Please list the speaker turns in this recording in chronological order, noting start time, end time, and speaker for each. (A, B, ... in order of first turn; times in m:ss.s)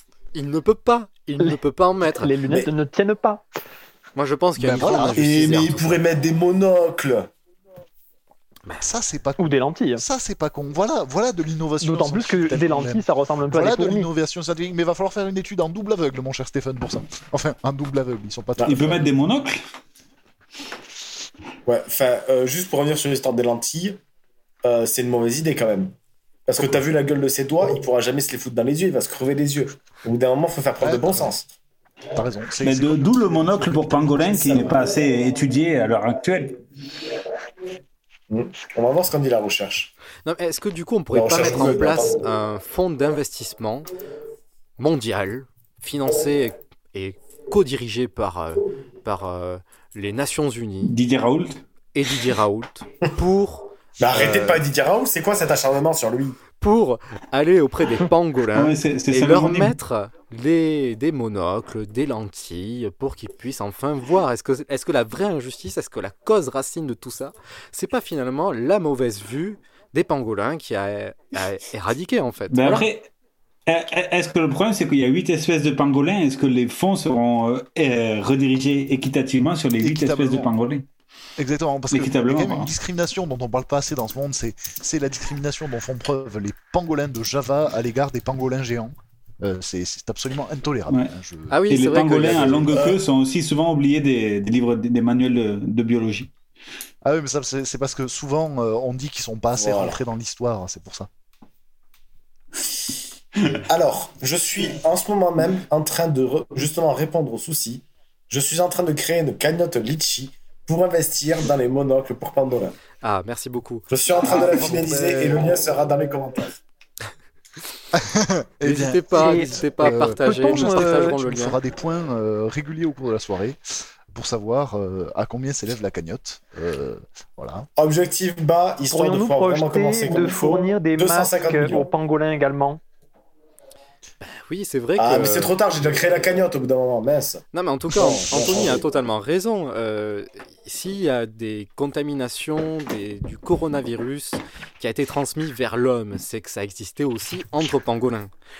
0:00.3-0:02.3 A
0:02.2-0:03.4 B
0:02.5-0:02.7 C
0:04.2-0:06.0 A
0:04.6-0:05.9 D
0:05.1-0:07.3 C
0:08.8-0:19.1 D
0:09.4-0:10.0 B
0:11.8-0:14.1 B
0:18.6-0:18.8 C
0:18.6-0:19.6 E
0:21.6-0:24.0 C
0:24.6-0:25.9 C
0:26.5-0:31.5 C
0:30.8-0:31.3 D
0:32.1-0:34.8 D
0:32.6-0:36.6 E
0:38.3-0:39.9 C
0:40.2-0:43.9 A
0:41.1-0:42.2 C
0:44.8-0:50.9 A
0:50.8-0:51.6 E
0:51.9-0:54.6 A
0:54.0-0:56.4 C
0:56.6-1:12.9 A
0:58.5-0:59.8 E
1:12.5-1:13.1 E
1:13.7-1:20.8 E
1:19.8-1:20.5 D
1:21.4-1:31.6 D
1:21.9-1:22.7 E
1:31.5-1:32.7 A
1:31.7-1:36.3 E
1:32.2-1:32.7 D
1:32.7-1:33.0 C
1:37.0-1:41.1 D
1:39.6-1:40.0 C
1:43.5-1:52.8 C
1:53.0-1:53.9 A
1:53.9-1:56.6 C
1:54.2-1:55.5 D
1:57.9-2:07.7 D
1:58.6-2:01.6 A
1:59.1-2:01.1 B
2:07.8-2:11.9 C
2:08.9-2:12.8 B
2:14.2-2:15.5 A
2:15.0-2:18.9 C
2:17.5-2:28.3 A